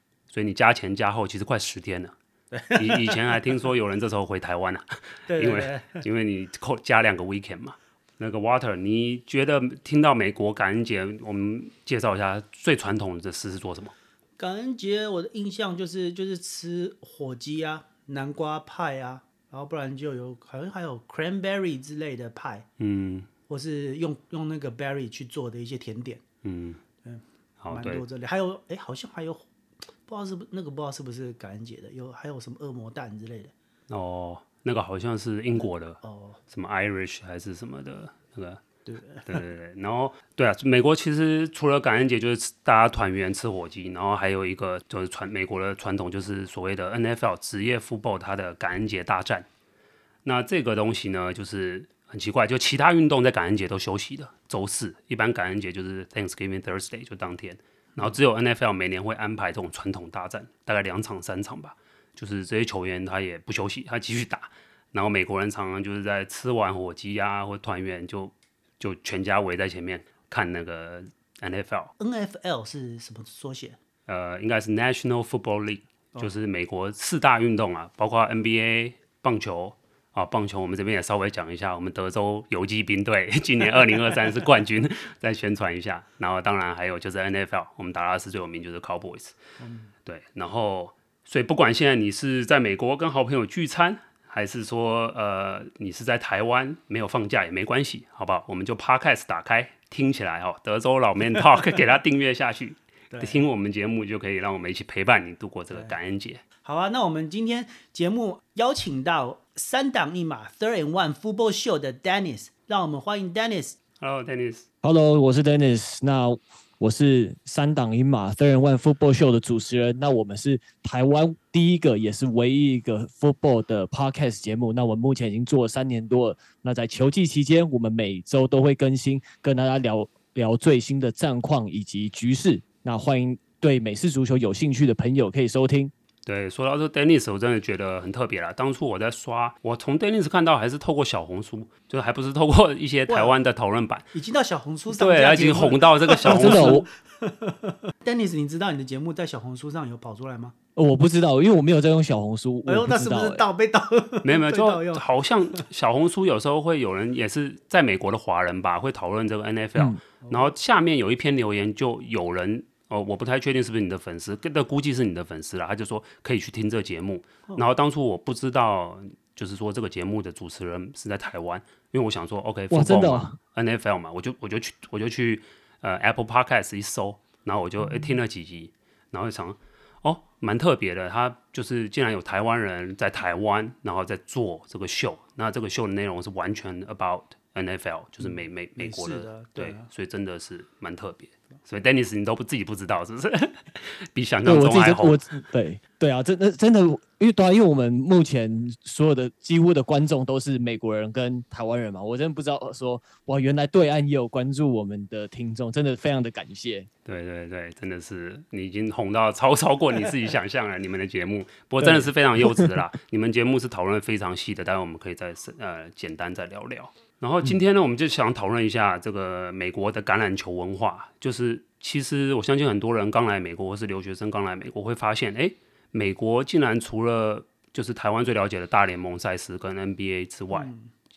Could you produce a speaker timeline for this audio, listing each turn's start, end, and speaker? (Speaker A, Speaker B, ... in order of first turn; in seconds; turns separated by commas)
Speaker A: 0.3-2.1, Speaker B: 2.5-3.4, Speaker A: 2.8-13.9, Speaker B: 5.3-6.0, Speaker B: 14.4-22.7, Speaker A: 22.8-23.3, Speaker B: 23.5-26.2, Speaker A: 26.4-26.8, Speaker B: 27.0-29.5, Speaker A: 27.6-28.0, Speaker B: 30.1-33.5, Speaker A: 33.9-38.6, Speaker B: 36.0-36.4, Speaker B: 38.9-39.4, Speaker A: 39.3-49.5, Speaker A: 50.2-71.9, Speaker B: 72.0-73.8, Speaker A: 74.1-89.4, Speaker B: 89.6-89.9, Speaker A: 90.0-106.4, Speaker B: 103.1-103.5, Speaker B: 106.6-113.8, Speaker A: 114.0-114.7, Speaker C: 114.8-135.9, Speaker A: 136.3-144.1, Speaker B: 143.1-143.4, Speaker B: 144.1-150.6, Speaker A: 144.9-146.8, Speaker C: 146.3-146.9, Speaker C: 150.8-153.4, Speaker B: 152.7-155.6, Speaker A: 154.2-195.4, Speaker B: 160.2-160.5, Speaker C: 172.7-173.4, Speaker B: 188.2-189.9, Speaker C: 194.4-206.9, Speaker A: 207.1-230.7, Speaker C: 211.8-212.7, Speaker B: 230.5-230.9